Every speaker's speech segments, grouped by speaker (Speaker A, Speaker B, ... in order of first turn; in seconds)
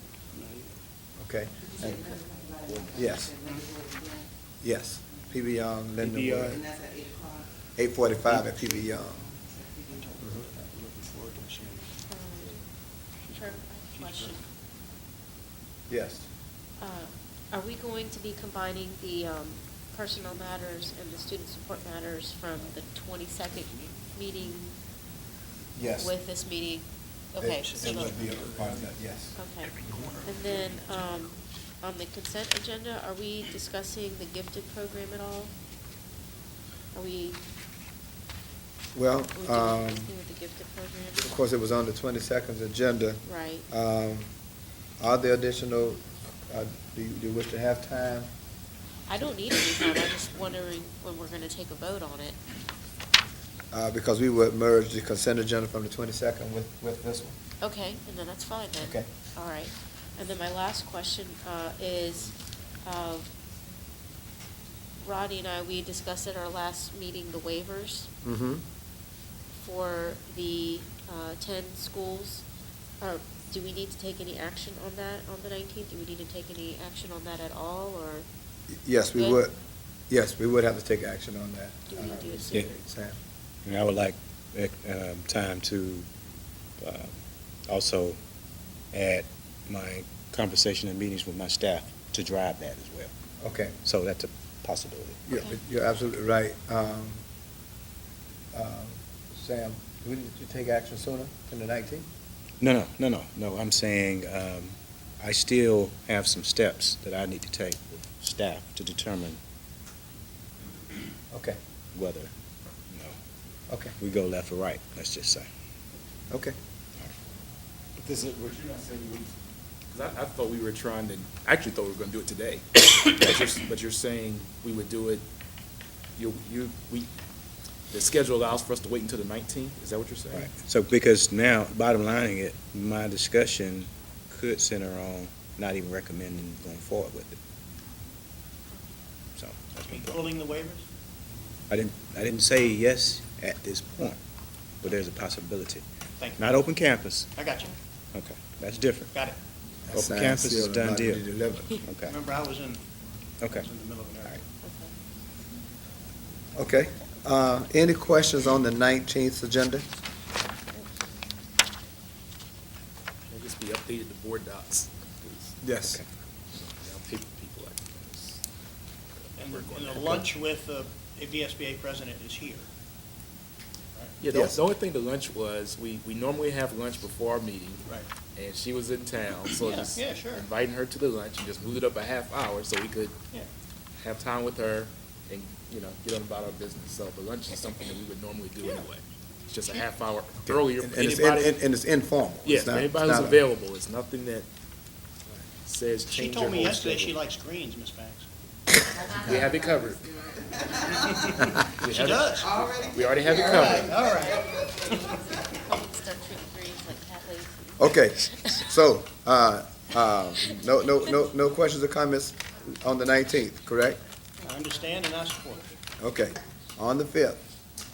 Speaker A: 0.3-0.7, 9.9-11.9, 13.3-14.3, 27.6-28.9, 29.8-30.8, 139.9-140.8, 146.2-146.6, 147.3-147.7, 149.1-149.4, 152.0-154.4, 169.4-172.7, 179.5-180.5, 196.1-198.3, 201.1-202.4, 203.3-205.1, 214.4-215.7
Speaker B: 1.2-2.0, 2.9-3.3, 4.6-6.6, 7.8-9.2, 15.9-16.3, 25.8-26.1, 27.4-29.4, 38.9-40.1, 41.2-44.3, 45.0-48.3, 53.7-57.3, 58.8-59.1, 68.2-68.6, 78.7-79.5, 80.1-83.2, 93.4-93.8, 95.3-97.2, 98.5-102.1, 111.3-111.6, 113.7-114.0, 116.3-116.5, 149.8-151.8, 156.5-159.8, 165.6-166.0, 174.3-174.6, 190.4-193.4, 207.8-214.0, 216.0-217.4
Speaker C: 2.0-2.3, 2.8-4.0, 6.6-7.3, 9.6-9.9
Speaker D: 2.6-3.0, 118.0-119.3, 119.9-125.2, 126.2-127.1, 127.9-130.5, 163.3-165.6, 166.5-168.4, 169.2-170.2, 174.2-183.2, 184.0-191.6, 192.4-194.5, 195.6-197.2, 199.1-200.2, 201.7-203.9
Speaker E: 12.1-12.5, 13.3-14.4, 16.8-24.8, 26.0-28.1, 29.3-35.5, 36.9-37.4, 39.3-41.4, 43.2-43.7, 49.1-52.4, 57.6-63.3, 65.0-68.1, 69.6-72.4, 73.0-78.2, 79.1-79.4, 81.9-82.7, 95.3-95.6, 154.6-154.9, 205.6-208.7
Speaker F: 83.7-86.1, 86.8-87.1, 87.7-88.2, 88.9-93.1, 93.8-95.2, 102.6-109.4, 111.9-112.3, 112.9-113.1, 114.0-115.5, 130.5-137.4, 139.4-140.2, 141.7-144.2, 144.8-145.8, 146.4-147.3, 148.1-149.1, 149.9-151.2, 151.8-152.1